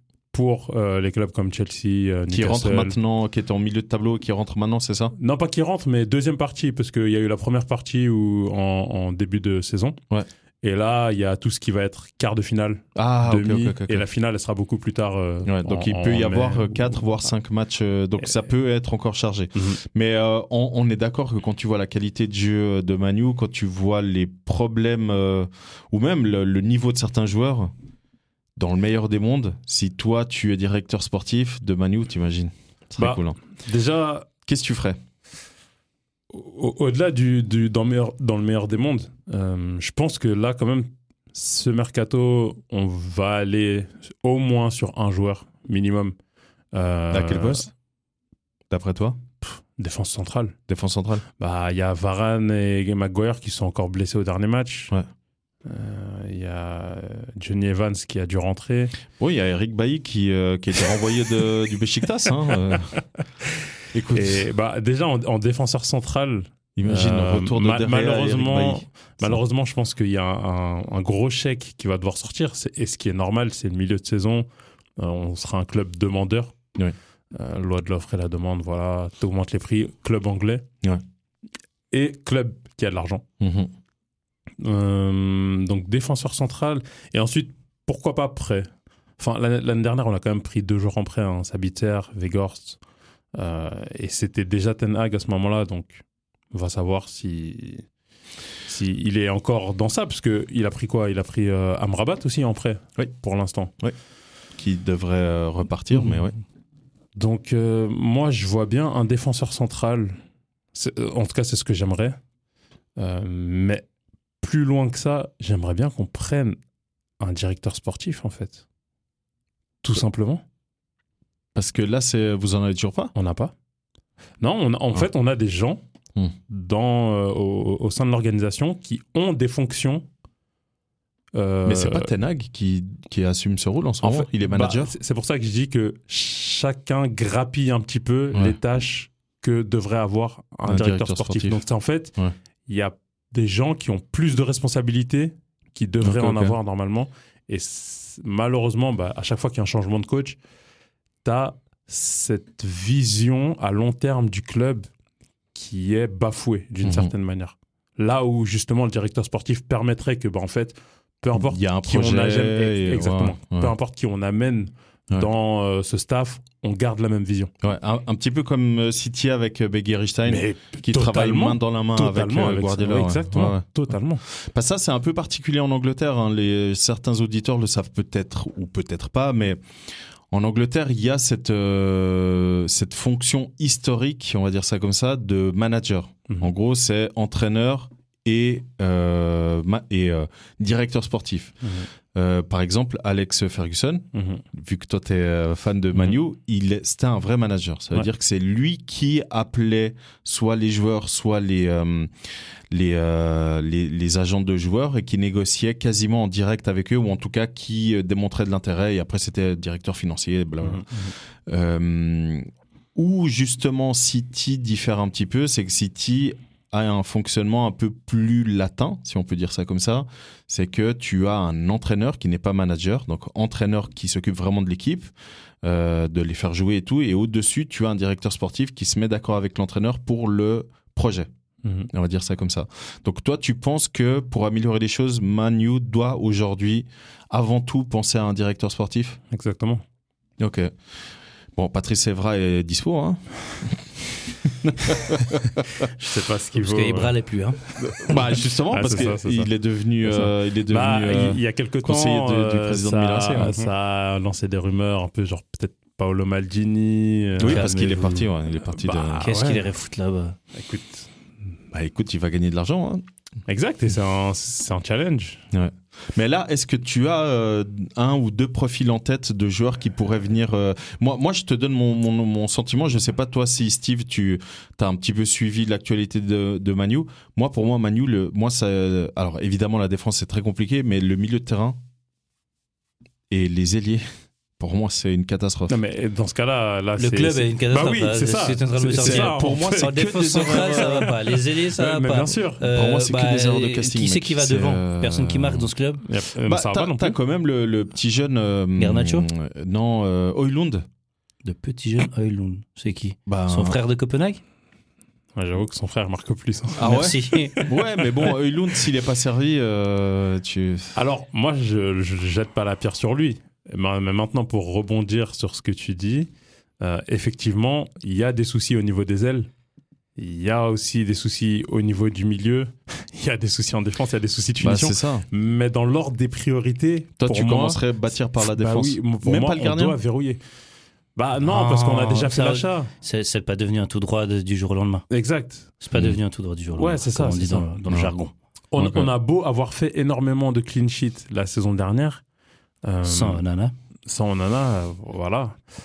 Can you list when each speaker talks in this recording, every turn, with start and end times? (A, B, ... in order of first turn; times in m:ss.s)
0:00.3-0:03.0 A
0:02.3-0:05.2 B
0:05.2-0:10.0 A
0:10.6-0:17.0 A
0:13.0-0:14.0 B
0:15.5-0:27.7 B
0:28.6-0:33.4 B
0:33.0-0:34.3 A
0:34.4-0:35.0 B
0:36.3-0:46.2 A
0:46.7-0:47.6 A
0:47.1-0:47.7 B
0:48.7-0:49.2 B
0:49.4-0:50.6 A
0:50.7-0:51.2 B
0:51.4-0:54.9 A
0:55.6-0:59.0 A
0:59.2-1:02.9 B
1:03.9-1:04.5 B
1:04.1-1:14.5 A
1:06.8-1:09.4 B
1:15.0-1:16.6 A
1:17.3-1:20.6 A
1:21.9-1:23.2 A
1:23.4-1:23.7 B
1:24.6-1:32.8 A
1:33.3-1:37.8 A
1:38.7-1:43.7 A
1:44.6-1:46.4 B
1:45.9-1:46.2 A
1:47.2-1:50.2 A
1:50.7-1:52.2 A
1:53.0-1:53.8 A
1:54.4-1:56.6 A
1:57.2-1:58.6 A
1:59.8-2:00.4 A
2:01.6-2:03.1 B
2:03.2-2:03.5 A
2:04.4-2:05.8 A
2:06.5-2:10.0 A
2:11.3-2:12.1 A
2:11.6-2:14.9 B
2:14.0-2:22.1 A
2:20.7-2:21.6 B
2:22.7-2:30.4 A
2:26.0-2:26.6 B
2:31.2-2:34.9 A
2:35.6-2:47.5 A
2:36.8-2:37.1 B
2:41.3-2:43.7 B
2:47.6-2:53.6 B
2:50.3-2:54.2 A
2:54.3-2:59.6 B
3:00.3-3:11.6 B
3:11.6-3:11.9 A
3:12.1-3:22.1 B
3:14.1-3:14.4 A
3:22.7-3:45.1 B
3:30.6-3:31.1 A
3:45.6-3:51.3 B
3:51.6-3:51.9 A
3:51.9-3:59.2 B
3:59.3-3:59.8 A
4:00.4-4:00.7 B
4:01.6-4:05.8 B
4:05.8-4:07.2 A
4:06.6-4:08.1 C
4:07.8-4:13.6 B
4:08.7-4:09.5 A
4:10.0-4:17.7 A
4:17.4-4:19.3 B
4:17.4-4:18.3 C
4:18.7-4:19.7 A
4:19.2-4:20.4 C
4:20.5-4:21.1 A
4:21.7-4:23.0 B
4:23.5-4:25.4 A
4:25.5-4:41.8 B
4:43.3-4:44.0 B
4:44.6-4:45.8 B
4:45.7-4:52.6 A
4:47.0-4:56.0 C
4:49.0-4:51.1 B
4:52.7-4:55.7 B
4:56.0-4:57.2 A
4:56.4-5:00.8 B
4:58.8-4:59.3 C
5:01.4-5:04.4 C
5:03.3-5:03.8 B
5:05.4-5:08.3 A
5:06.8-5:07.6 C
5:06.8-5:11.0 B
5:11.0-5:16.3 A
5:16.8-5:19.5 A
5:20.2-5:27.8 A
5:24.6-5:25.3 B
5:27.2-5:30.0 B
5:28.4-5:30.4 A
5:31.2-5:32.9 A
5:31.4-5:35.1 C
5:35.1-5:35.7 A
5:35.8-5:38.3 C
5:36.8-5:37.7 A
5:38.7-5:42.2 A
5:38.8-5:39.1 B
5:42.8-5:43.4 A
5:43.0-5:43.7 C
5:44.1-5:45.6 A